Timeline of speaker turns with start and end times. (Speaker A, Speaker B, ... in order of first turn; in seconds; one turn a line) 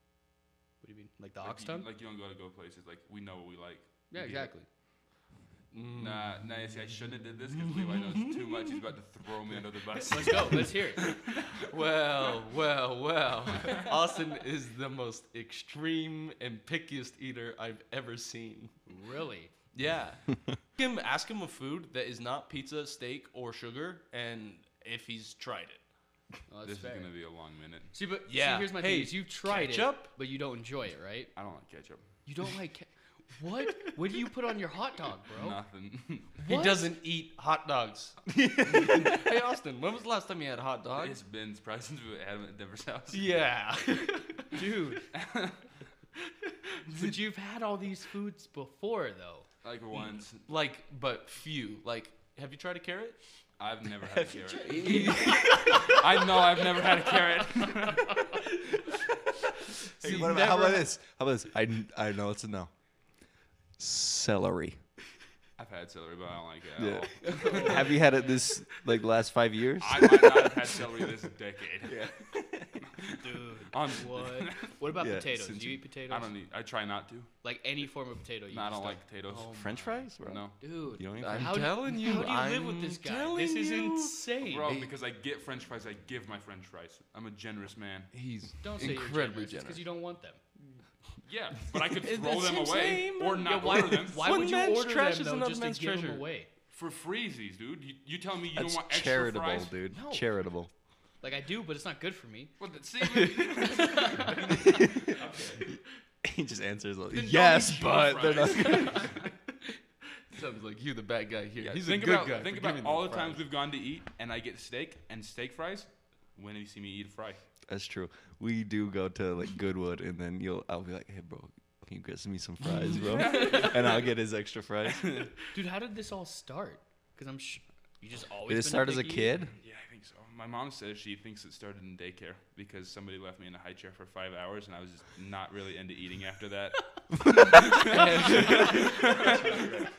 Speaker A: 0.8-1.9
Speaker B: 1.4-4.5
Speaker A: 4.1-4.7
Speaker C: 5.7-6.4
Speaker B: 5.9-11.6
Speaker C: 7.5-8.8
Speaker A: 10.1-11.1
Speaker C: 11.5-18.8
Speaker A: 18.9-19.5
Speaker C: 19.7-25.8
Speaker A: 26.5-27.1
Speaker B: 26.6-27.9
Speaker A: 27.9-31.3
Speaker C: 28.3-30.1
Speaker B: 31.3-32.1
Speaker A: 32.2-35.6
Speaker B: 35.3-36.4
Speaker A: 36.4-36.9
Speaker C: 36.4-41.2
Speaker D: 38.3-39.2
Speaker B: 41.0-43.4
Speaker C: 43.1-44.7
Speaker A: 44.5-45.0
Speaker B: 45.1-45.6
Speaker A: 46.9-49.5
Speaker B: 49.6-50.5
Speaker C: 50.5-53.2
Speaker B: 53.6-58.4
Speaker A: 54.3-55.9
Speaker C: 54.6-56.0
Speaker A: 60.0-60.9
Speaker D: 60.0-62.7
Speaker D: 63.8-64.8
Speaker B: 65.6-68.0
Speaker D: 66.8-70.8
Speaker C: 67.3-68.0
Speaker A: 67.4-68.4
Speaker B: 69.8-72.2
Speaker D: 71.8-72.8
Speaker B: 72.8-74.8
Speaker A: 73.2-76.3
Speaker D: 75.0-75.6
Speaker B: 75.4-77.3
Speaker A: 77.4-80.0
Speaker B: 78.5-80.6
Speaker D: 79.3-81.7
Speaker A: 80.6-84.7
Speaker C: 81.2-84.9
Speaker B: 84.5-88.1
Speaker C: 88.1-89.8
Speaker A: 88.6-90.8
Speaker B: 91.2-94.5
Speaker C: 91.9-96.2
Speaker A: 93.4-96.5
Speaker B: 96.7-99.7
Speaker D: 98.5-100.7
Speaker A: 99.9-100.3
Speaker A: 101.2-102.5
Speaker B: 102.6-105.7
Speaker C: 103.0-103.9
Speaker A: 103.5-104.8
Speaker D: 104.6-109.2
Speaker B: 107.1-109.3
Speaker A: 108.7-109.1
Speaker C: 110.3-113.4
Speaker B: 111.6-117.4
Speaker D: 117.7-125.2
Speaker B: 122.8-124.1
Speaker A: 123.1-124.0
Speaker B: 124.9-125.3
Speaker A: 125.5-129.3
Speaker D: 128.5-129.5
Speaker B: 129.6-139.8
Speaker D: 137.2-137.8
Speaker C: 137.8-139.8
Speaker A: 138.4-138.9